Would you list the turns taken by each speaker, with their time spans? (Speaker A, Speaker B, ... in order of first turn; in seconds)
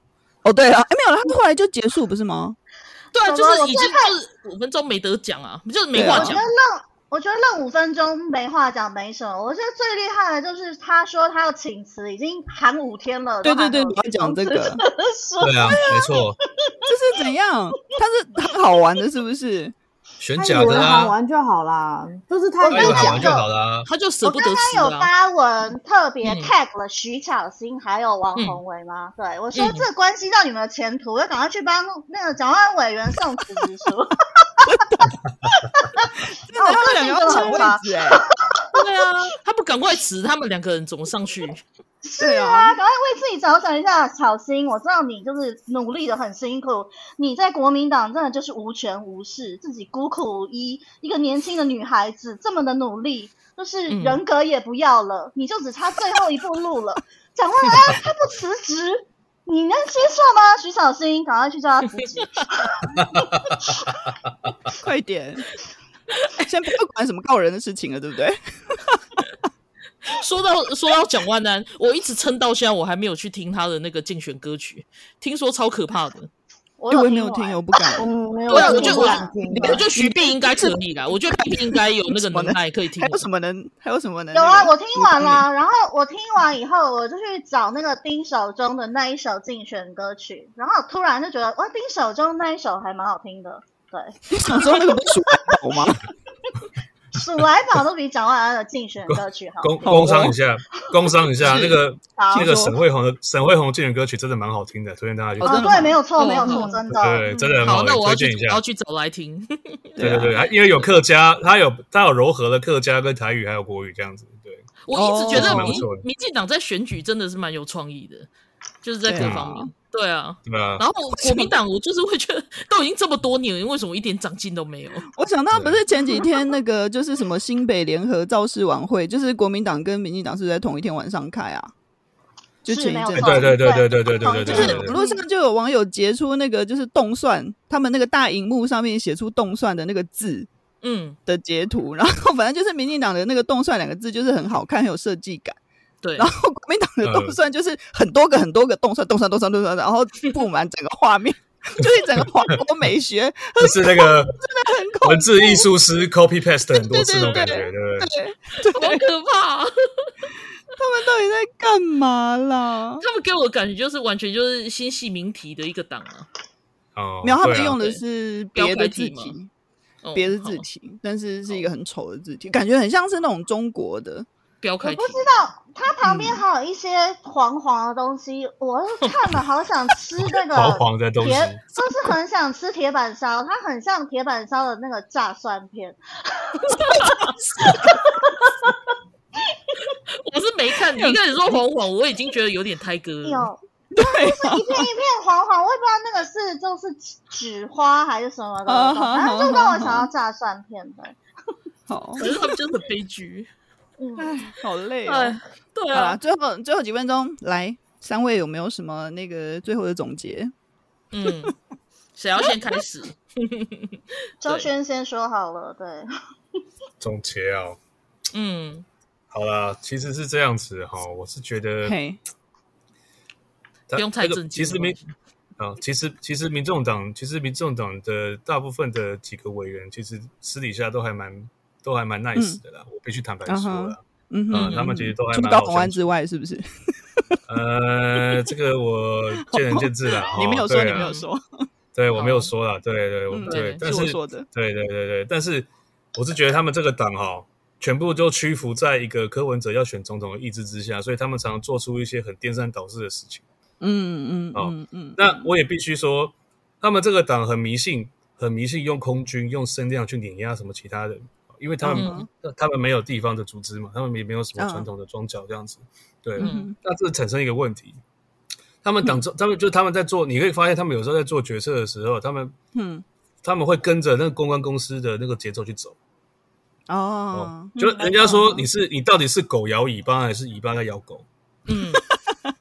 Speaker A: 0.4-2.6, 5.9-6.4, 13.4-14.8, 16.9-19.8, 34.6-35.2, 36.5-38.2, 42.2-42.8, 64.8-65.5, 66.4-69.3, 76.9-78.1, 78.7-78.9, 79.6-85.5, 94.3-96.1, 99.8-100.3, 101.4-101.8, 102.3-102.8, 105.4-106.8, 110.0-110.4, 114.9-115.8, 119.0-119.7, 121.1-121.5, 125.1-131.7, 132.6-133.6, 134.2-140.5, 141.3-145.6, 146.2-155.7, 156.7-159.1, 160.7-163.0, 167.2-169.5, 170.2-174.3, 176.0-176.4, 186.8-187.8, 191.0-191.6, 193.9-194.9, 198.7-200.1, 201.9-202.3, 204.2-205.4, 205.9-210.5, 221.8-222.2, 233.5-237.4, 239.5-241.7, 243.3-244.5, 253.8-255.4, 261.8-262.3, 264.6-264.9, 266.4-266.8, 272.8-273.1, 276.9-278.6, 281.9-282.3
Speaker B: 3.1-6.5, 23.9-25.1, 26.2-26.5, 29.5-29.9, 38.7-41.6, 53.9-54.2, 70.0-76.3, 78.5-83.3, 105.5-106.7, 107.6-110.0, 114.9-118.3, 118.8-125.1, 134.5-134.8, 140.8-141.2, 146.0-146.3, 158.8-160.1, 163.0-166.3, 167.6-168.0, 168.6-169.4, 170.0-170.7, 174.6-175.2, 186.8-187.7, 190.2-193.5, 202.2-203.5, 205.1-206.2, 211.1-211.5, 212.2-214.7, 218.3-218.9, 223.9-225.1, 234.6-234.9, 240.9-241.2, 242.2-242.5, 243.4-243.8, 261.9-262.2, 266.4-266.7, 281.7-282.0
Speaker C: 3.2-4.1, 6.1-16.9, 22.6-23.5, 24.2-34.5, 35.8-38.8, 42.0-63.9, 76.8-77.6, 78.5-79.8, 84.3-95.1, 97.1-100.2, 102.2-102.5, 105.5-107.3, 132.7-135.2, 174.8-186.8, 187.7-188.4, 193.2-201.2, 204.0-204.5, 214.4-216.1
Speaker D: 15.4-16.4, 20.2-21.1, 22.7-23.9, 99.1-105.9, 106.9-108.6, 110.0-114.7, 115.3-116.0, 119.2-119.4, 120.5-120.8, 125.5-125.8, 133.2-135.0, 147.0-147.4, 153.6-154.4, 155.0-158.1, 167.0-167.8, 180.5-181.6, 217.0-217.8, 219.3-222.0, 223.9-225.0, 225.6-236.0, 237.5-241.1, 241.9-253.4, 254.5-268.0, 268.8-272.6, 273.4-276.0, 277.3-281.3
Speaker E: 20.4-23.3, 78.0-79.9